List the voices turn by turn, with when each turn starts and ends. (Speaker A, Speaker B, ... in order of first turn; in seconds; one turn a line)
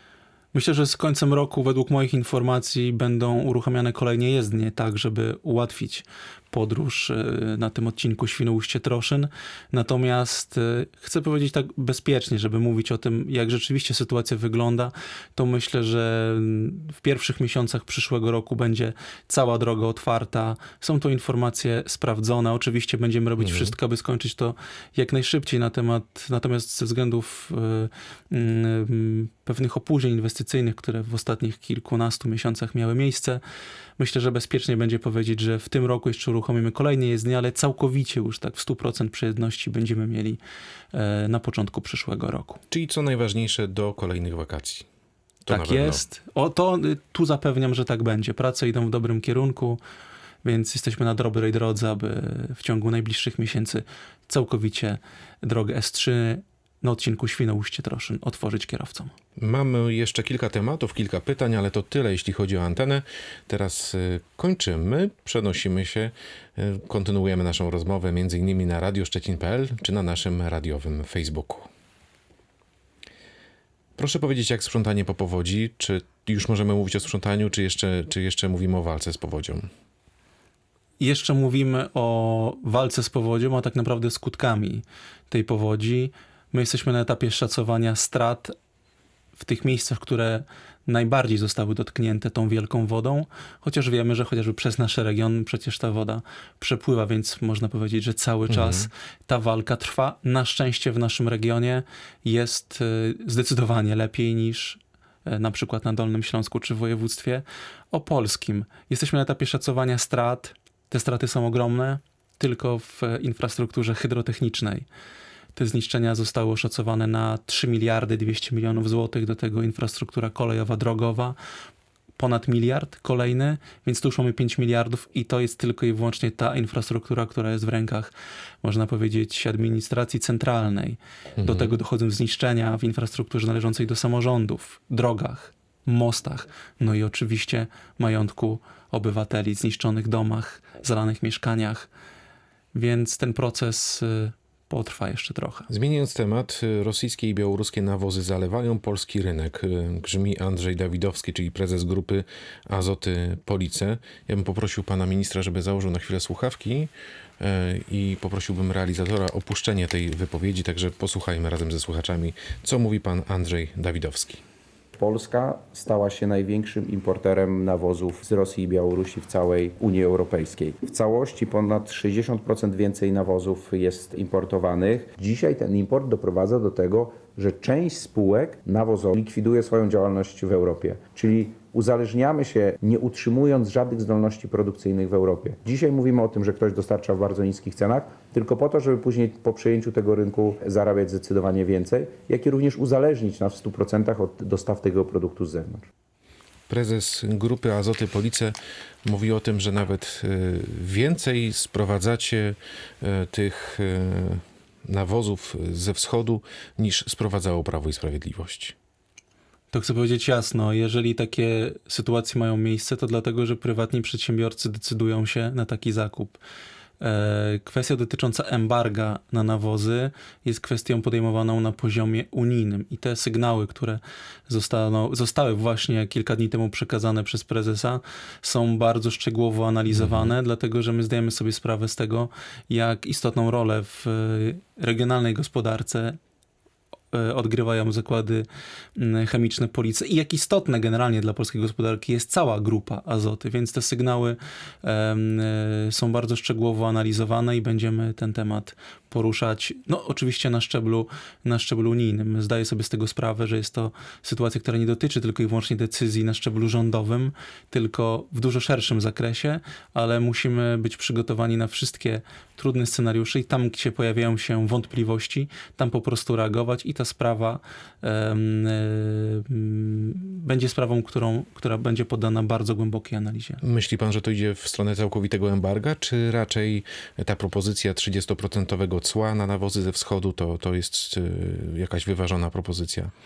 Speaker A: 0.5-33.4
Speaker B: 23.4-23.7
Speaker A: 34.0-40.4
Speaker A: 40.9-42.6
Speaker B: 42.7-44.9
Speaker B: 45.4-46.0
Speaker A: 45.5-49.8
Speaker A: 50.4-59.1
Speaker B: 59.4-71.7
Speaker B: 74.0-79.7
Speaker A: 81.0-88.5
Speaker A: 89.3-114.8
Speaker B: 98.5-98.9
Speaker A: 115.5-121.4
Speaker A: 122.2-141.9
Speaker B: 131.4-131.7
Speaker A: 142.7-145.7
Speaker B: 145.7-164.4
Speaker C: 164.9-195.8
Speaker B: 196.7-208.7
Speaker A: 209.7-216.4
Speaker A: 217.0-236.2
Speaker B: 229.9-230.3
Speaker A: 237.1-273.6
Speaker B: 273.6-283.1